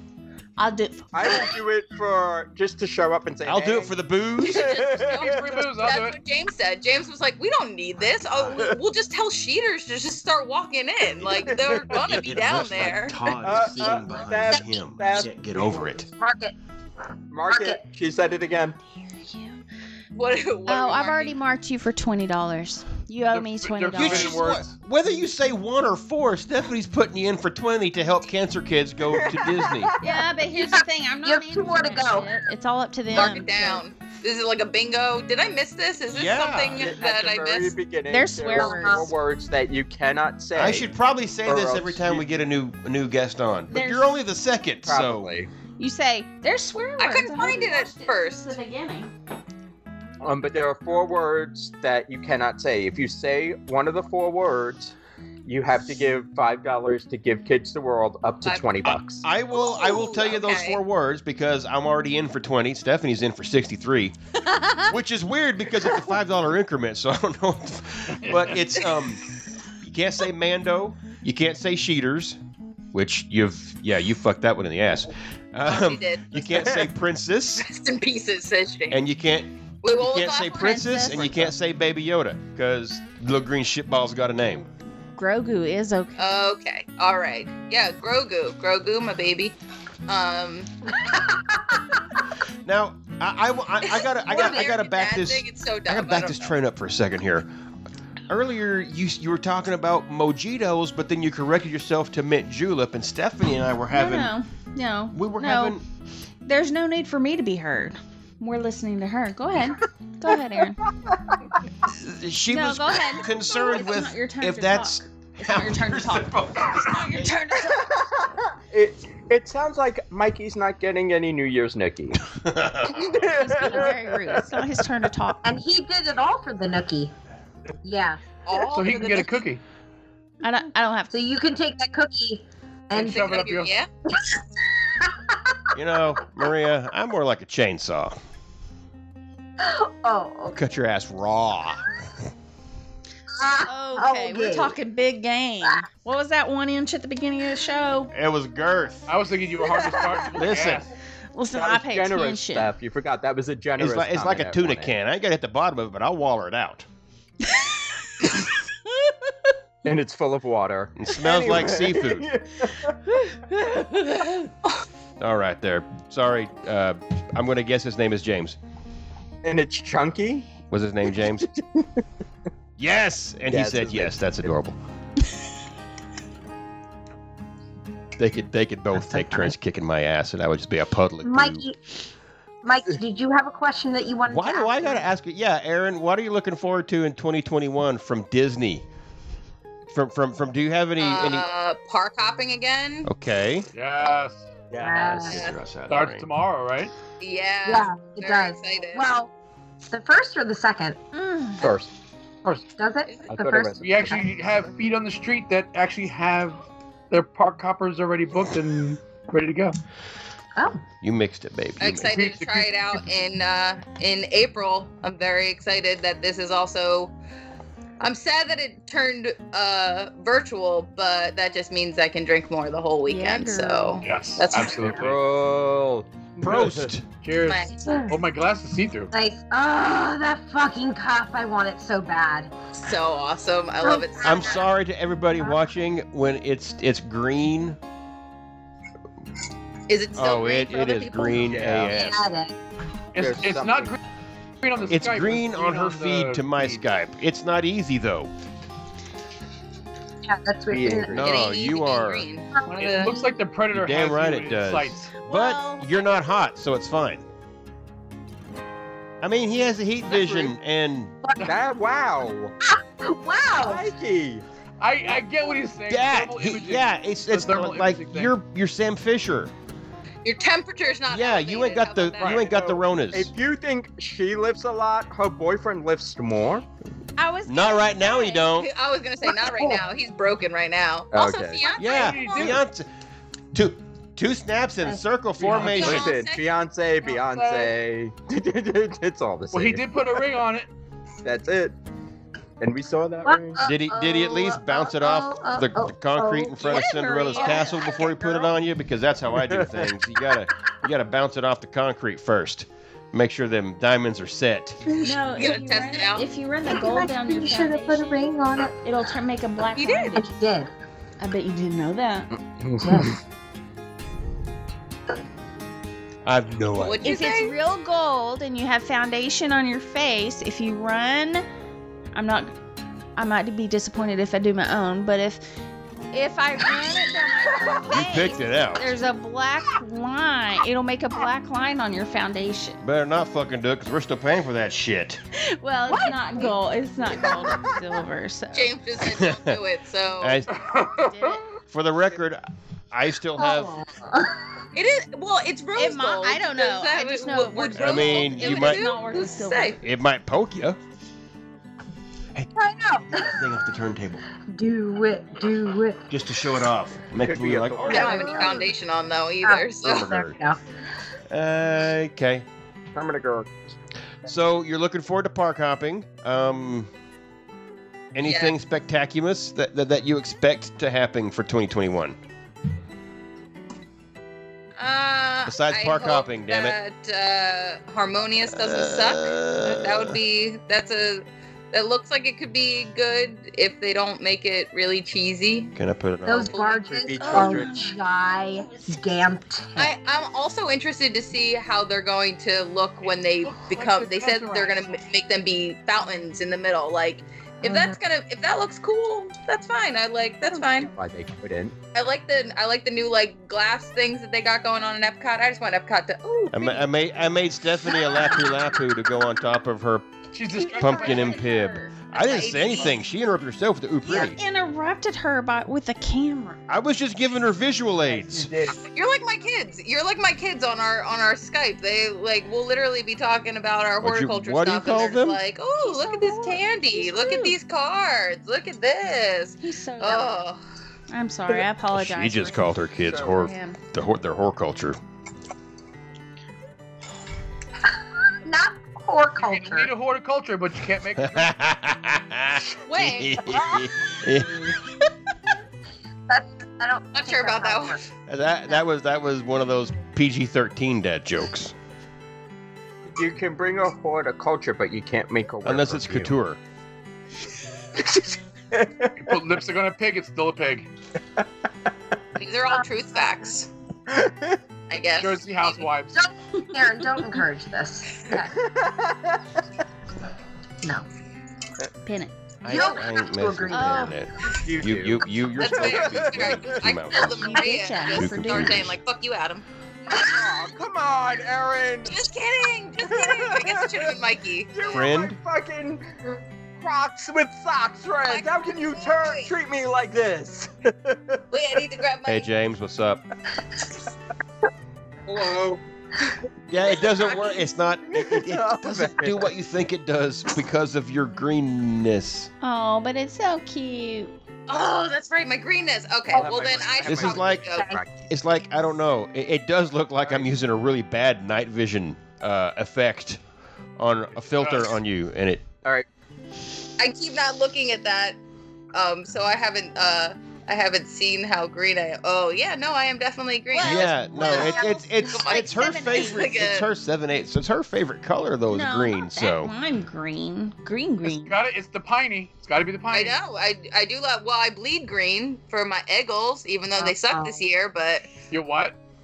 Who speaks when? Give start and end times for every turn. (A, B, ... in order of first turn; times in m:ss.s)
0:00.6-0:01.5 A
0:01.1-0:05.6 B
0:03.4-0:04.9 C
0:04.4-0:13.3 D
0:05.1-0:06.2 E
0:11.3-0:12.2 B
0:11.9-0:16.1 C
0:13.3-0:15.9 B
0:16.2-0:16.5 F
0:17.3-0:18.8 B
0:17.5-0:17.8 F
0:19.2-0:19.6 A
0:20.1-0:21.4 D
0:20.7-0:24.4 A
0:23.3-0:24.7 E
0:24.0-0:29.9 C
0:29.0-0:30.2 B
0:30.0-0:33.8 A
0:30.6-0:32.3 F
0:33.1-0:37.8 D
0:36.1-0:36.9 C
0:36.7-0:40.9 B
0:38.1-0:39.1 A
0:38.6-0:39.1 F
0:40.5-0:45.3 C
0:41.4-0:42.2 B
0:43.7-0:44.2 A
0:44.8-0:45.5 B
0:45.8-0:49.1 A
0:47.0-0:48.6 D
0:50.2-0:54.9 B
0:55.4-0:59.2 B
0:58.4-0:58.8 D
0:58.9-1:04.2 C
0:59.5-1:00.8 D
1:04.9-1:09.2 C
1:08.2-1:08.5 E
1:08.6-1:09.0 D
1:09.8-1:12.4 C
1:12.9-1:17.6 C
1:15.6-1:16.7 D
1:17.6-1:19.1 D
1:18.9-1:24.6 C
1:19.8-1:20.8 D
1:20.5-1:21.5 A
1:25.2-1:26.2 A
1:26.2-1:29.5 D
1:30.1-1:30.8 D
1:31.0-1:31.6 F
1:32.6-1:37.5 C
1:33.8-1:36.5 D
1:34.3-1:34.6 F
1:38.3-1:44.3 C
1:43.9-1:45.8 A
1:45.1-1:45.8 C
1:46.4-1:50.8 A
1:51.8-1:57.1 C
1:52.5-1:58.1 A
1:57.9-2:02.2 B
2:02.3-2:03.2 C
2:02.9-2:04.5 B
2:03.2-2:05.4 A
2:05.4-2:07.1 F
2:07.8-2:08.2 F
2:08.4-2:09.4 D
2:08.7-2:09.6 E
2:10.4-2:11.1 A
2:11.1-2:13.4 F
2:12.9-2:13.7 E
2:13.0-2:13.9 D
2:15.0-2:15.3 F
2:15.7-2:18.1 C
2:19.6-2:20.6 F
2:20.5-2:21.8 C
2:23.4-2:24.7 F
2:23.7-2:28.1 A
2:28.1-2:29.1 C
2:29.1-2:30.9 E
2:30.4-2:30.9 C
2:31.3-2:32.7 A
2:31.5-2:34.9 B
2:33.8-2:36.8 C
2:39.8-2:43.0 B
2:41.0-2:42.2 C
2:45.2-2:48.6 C
2:49.4-2:50.5 B
2:50.7-2:51.5 C
2:51.4-2:52.0 B
2:52.8-2:54.8 C
2:53.4-2:54.6 B
2:58.2-3:01.6 C
2:58.9-2:59.5 B
3:01.2-3:01.8 F
3:02.6-3:05.0 F
3:04.3-3:08.8 C
3:09.9-3:11.5 C
3:11.0-3:13.1 D
3:13.0-3:13.7 C
3:13.7-3:14.5 E
3:14.7-3:15.7 B
3:14.8-3:15.4 F
3:15.0-3:16.3 C
3:15.9-3:16.9 E
3:17.2-3:19.1 D
3:17.6-3:19.3 F
3:19.8-3:21.0 F
3:21.1-3:21.7 A
3:21.6-3:21.9 B
3:22.8-3:24.2 F
3:23.3-3:24.2 B
3:23.8-3:29.7 E
3:31.0-3:32.2 C
3:31.8-3:37.1 D
3:32.0-3:32.7 E
3:38.0-3:44.9 D
3:43.0-3:44.0 A
3:44.0-3:45.2 E
3:44.8-3:47.0 B
3:46.4-3:47.0 C
3:47.2-3:49.1 E
3:47.4-3:47.9 D
3:47.8-3:48.1 F
3:49.1-3:52.5 F
3:52.8-3:54.7 D
3:53.8-3:54.4 F
3:54.2-3:57.8 C
3:59.9-4:02.2 D
4:00.1-4:02.3 C
4:01.4-4:01.9 B
4:01.9-4:02.5 F
4:03.1-4:04.0 E
4:03.2-4:04.0 B
4:04.6-4:06.8 E
4:04.8-4:08.3 C
4:10.3-4:11.4 F
4:10.7-4:11.3 B
4:11.1-4:12.2 C
4:11.2-4:13.2 D
4:12.6-4:13.2 F
4:12.8-4:15.1 E
4:13.7-4:17.2 C
4:15.2-4:16.1 A
4:19.2-4:21.2 C
4:21.2-4:21.5 F
4:21.4-4:22.5 B
4:22.7-4:23.9 F
4:23.6-4:24.4 B
4:24.8-4:28.3 E
4:25.9-4:29.5 C
4:30.2-4:32.5 D
4:31.1-4:33.3 C
4:32.2-4:32.5 E
4:32.4-4:36.6 B
4:37.2-4:38.5 A
4:37.5-4:38.7 C
4:38.5-4:42.6 D
4:39.2-4:39.8 F
4:41.1-4:41.7 B
4:41.8-4:42.9 C
4:41.8-4:42.6 E
4:43.5-4:46.1 C
4:45.4-4:45.9 E
4:45.4-4:50.0 B
4:45.6-4:46.5 D
4:47.3-4:47.7 F
4:49.5-4:50.7 E
4:51.2-4:51.7 B
4:52.6-4:53.6 B
4:53.2-4:56.8 F
4:53.6-5:04.9 C
4:56.6-4:57.8 A
4:57.4-4:57.7 F
4:59.3-4:59.9 B
5:05.0-5:10.3 A
5:05.3-5:06.3 D
5:06.7-5:08.7 F
5:09.8-5:10.2 D
5:10.1-5:10.7 F
5:11.2-5:12.3 A
5:12.3-5:13.2 B
5:12.8-5:13.1 F
5:16.2-5:17.0 C
5:16.7-5:17.5 D
5:17.0-5:21.4 A
5:22.1-5:22.5 A
5:23.2-5:25.4 A
5:26.1-5:32.8 A
5:27.8-5:28.9 C
5:32.8-5:35.2 C
5:35.4-5:38.8 A
5:35.9-5:36.5 F
5:38.5-5:40.4 D
5:39.1-5:39.6 C
5:40.2-5:40.5 C
5:40.5-5:41.1 E
5:40.9-5:41.4 A
5:41.7-5:43.7 C
5:43.4-5:44.4 F
5:44.7-5:49.8 D
5:45.8-5:49.8 A
5:47.8-5:48.8 C
5:49.8-5:50.8 C
5:52.3-5:54.2 C
5:52.5-5:53.4 F
5:54.5-5:56.0 F
5:56.1-5:58.6 C
5:57.2-5:58.4 B
5:57.8-6:00.1 D
5:57.9-5:58.7 F
5:59.4-6:00.6 F
5:59.8-6:00.3 C
6:01.3-6:02.4 C
6:02.9-6:03.5 B
6:04.2-6:06.9 C
6:08.1-6:12.2 C
6:08.2-6:08.6 D
6:14.8-6:25.7 D
6:15.4-6:16.8 C
6:18.5-6:20.2 C
6:25.8-6:26.6 C
6:26.2-6:29.9 F
6:26.5-6:27.6 D
6:26.9-6:27.9 B
6:28.5-6:29.0 A
6:29.8-6:40.9 D
6:33.4-6:34.8 E
6:37.6-6:38.0 F
6:40.6-6:41.8 B
6:41.9-6:46.9 D
6:46.5-6:50.1 C
6:50.3-6:51.5 E
6:50.5-6:52.0 A
6:50.8-6:54.4 C
6:52.1-6:53.0 D
6:54.0-6:56.6 A
6:56.7-6:58.5 C
6:58.0-6:58.8 B
6:58.9-7:10.6 D
7:04.0-7:05.4 C
7:05.8-7:07.6 A
7:09.6-7:10.4 A
7:11.1-7:13.8 A
7:11.9-7:15.0 C
7:13.0-7:13.5 B
7:18.4-7:19.9 F
7:19.4-7:21.5 E
7:21.2-7:24.8 C
7:22.8-7:23.4 D
7:26.3-7:28.0 F
7:27.1-7:28.0 D
7:28.2-7:31.7 C
7:33.1-7:36.4 B
7:35.6-7:36.6 C
7:38.7-7:39.3 B
7:39.2-7:40.9 E
7:42.4-7:43.7 D
7:44.1-7:44.6 B
7:44.9-7:45.8 D
7:45.1-7:46.2 E
7:46.1-7:48.5 F
7:48.4-7:49.4 B
7:52.0-7:52.3 A
7:52.6-7:58.9 C
7:52.6-7:54.1 F
7:53.7-7:54.2 A
7:54.6-7:56.8 B
7:55.6-7:59.6 D
7:57.2-7:59.0 A
8:00.1-8:00.5 F
8:00.1-8:02.1 B
8:02.1-8:05.1 D
8:03.0-8:04.1 B
8:04.7-8:06.1 B
8:04.9-8:05.4 C
8:06.8-8:11.4 B
8:08.2-8:09.5 D
8:11.5-8:12.5 D
8:12.2-8:13.2 C
8:16.7-8:22.5 C
8:17.1-8:17.6 D
8:18.1-8:19.5 B
8:22.6-8:24.3 A
8:24.7-8:27.9 D
8:26.3-8:28.1 B
8:27.0-8:27.7 C
8:27.7-8:28.0 F
8:28.3-8:33.4 C
8:30.2-8:30.6 B
8:34.0-8:35.7 C
8:34.5-8:35.0 E
8:37.0-8:38.4 D
8:38.9-8:46.9 D
8:43.7-8:46.6 A
8:43.8-8:49.7 C
8:48.7-8:51.6 A
8:51.2-8:53.4 E
8:53.1-8:58.2 D
8:57.0-8:57.6 F
8:58.5-8:59.0 E